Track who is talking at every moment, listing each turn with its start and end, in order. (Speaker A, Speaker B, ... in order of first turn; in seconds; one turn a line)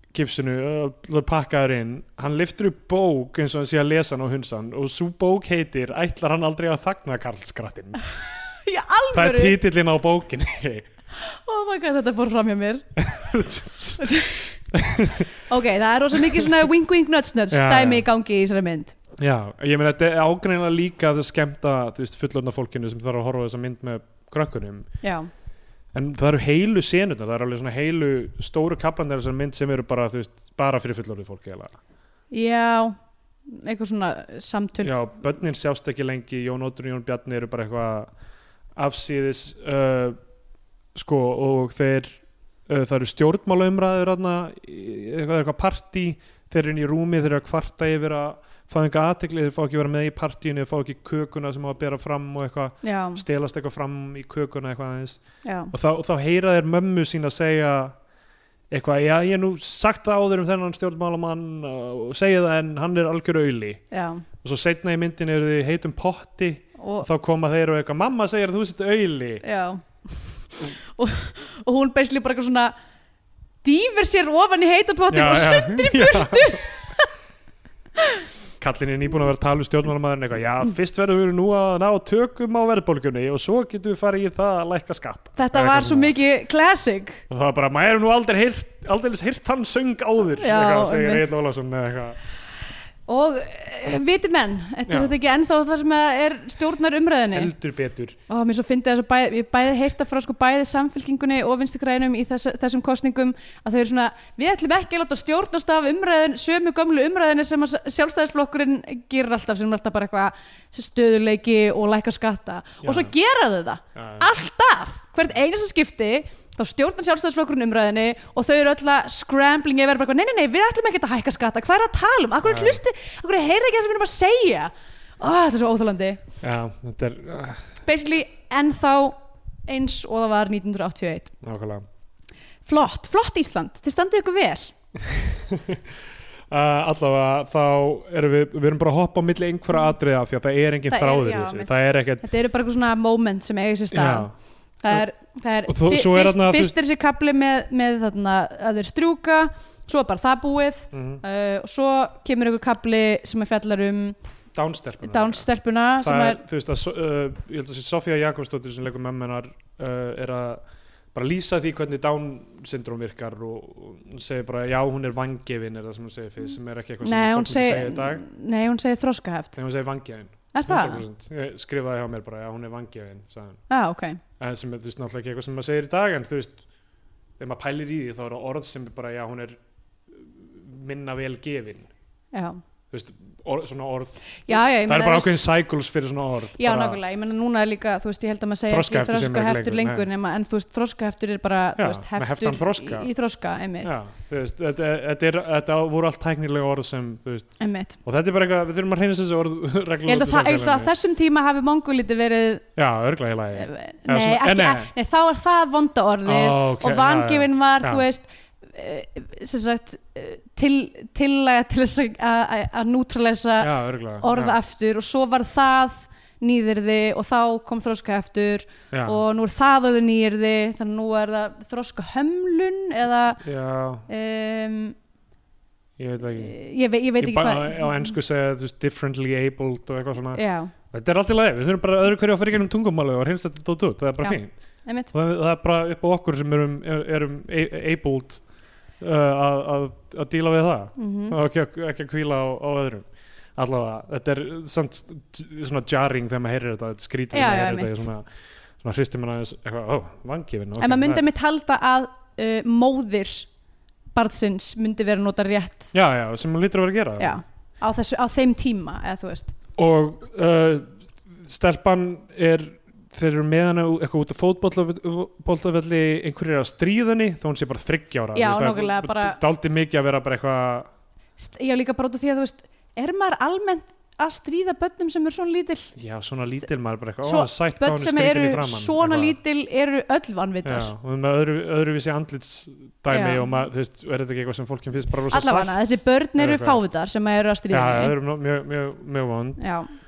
Speaker A: 0.1-8.1
Speaker B: 8.6-9.6
Speaker A: 9.1-10.9
Speaker B: 11.2-12.8
Speaker A: 13.0-14.2
Speaker B: 14.0-14.6
Speaker A: 14.7-15.3
Speaker B: 15.4-19.0
Speaker A: 17.5-18.1
Speaker A: 19.2-24.9
Speaker B: 25.0-25.3
Speaker A: 25.9-31.8
Speaker B: 32.3-33.0
Speaker B: 33.5-35.0
Speaker A: 34.8-38.1
Speaker A: 38.8-40.2
Speaker A: 41.0-58.0
Speaker B: 52.8-53.2
Speaker B: 55.4-55.7
Speaker A: 58.7-63.8
Speaker B: 63.9-64.2
Speaker A: 64.4-69.4
Speaker B: 66.8-67.1
Speaker B: 69.4-69.8
Speaker B: 70.6-72.7
Speaker B: 73.6-77.1
Speaker A: 75.1-76.6
Speaker B: 78.0-78.2
Speaker A: 78.6-86.2
Speaker B: 85.4-87.2
Speaker A: 87.3-92.2
Speaker B: 90.4-91.3
Speaker B: 93.1-97.5
Speaker A: 94.9-95.2
Speaker A: 97.3-98.2
Speaker B: 98.3-126.2
Speaker A: 112.8-113.1
Speaker A: 114.0-114.3
Speaker A: 122.5-122.8
Speaker A: 126.4-127.7
Speaker B: 127.8-131.3
Speaker A: 131.4-131.8
Speaker B: 132.7-134.7
Speaker A: 135.0-136.0
Speaker A: 136.5-142.2
Speaker B: 140.9-144.3
Speaker A: 143.9-144.3
Speaker B: 144.8-154.2
Speaker A: 145.7-146.7
Speaker A: 150.9-151.2
Speaker A: 154.5-155.5
Speaker B: 155.0-156.4
Speaker A: 156.0-160.6
Speaker A: 161.1-168.2
Speaker B: 167.0-169.6
Speaker A: 169.6-173.6
Speaker B: 170.5-171.0
Speaker B: 173.7-174.2
Speaker A: 174.4-176.6
Speaker A: 177.4-179.6
Speaker A: 180.1-181.9
Speaker B: 182.3-182.6
Speaker A: 182.9-187.0
Speaker B: 184.5-185.4
Speaker B: 186.6-193.9
Speaker A: 188.7-190.1
Speaker A: 191.8-193.1
Speaker A: 193.8-200.9
Speaker B: 197.6-198.0
Speaker B: 200.1-202.7
Speaker A: 202.8-204.9
Speaker B: 203.6-223.4
Speaker A: 206.3-208.1
Speaker A: 213.6-214.6
Speaker A: 218.9-219.2
Speaker A: 223.4-224.1
Speaker B: 224.1-225.0
Speaker A: 226.0-226.5
Speaker B: 226.4-228.1
Speaker A: 227.2-234.5
Speaker B: 230.3-230.7
Speaker B: 234.2-235.1
Speaker A: 235.1-238.4
Speaker A: 239.0-248.3
Speaker B: 241.0-241.4
Speaker B: 247.3-248.1
Speaker A: 248.8-251.2
Speaker B: 250.8-253.5
Speaker B: 254.2-255.9
Speaker A: 255.9-257.4
Speaker B: 257.2-259.6
Speaker A: 259.8-270.9
Speaker B: 268.4-269.4
Speaker B: 271.4-275.9
Speaker A: 276.0-279.4
Speaker B: 277.2-280.9
Speaker A: 280.6-286.8
Speaker B: 283.1-283.5
Speaker B: 285.3-288.1
Speaker A: 287.7-289.6
Speaker B: 289.6-289.9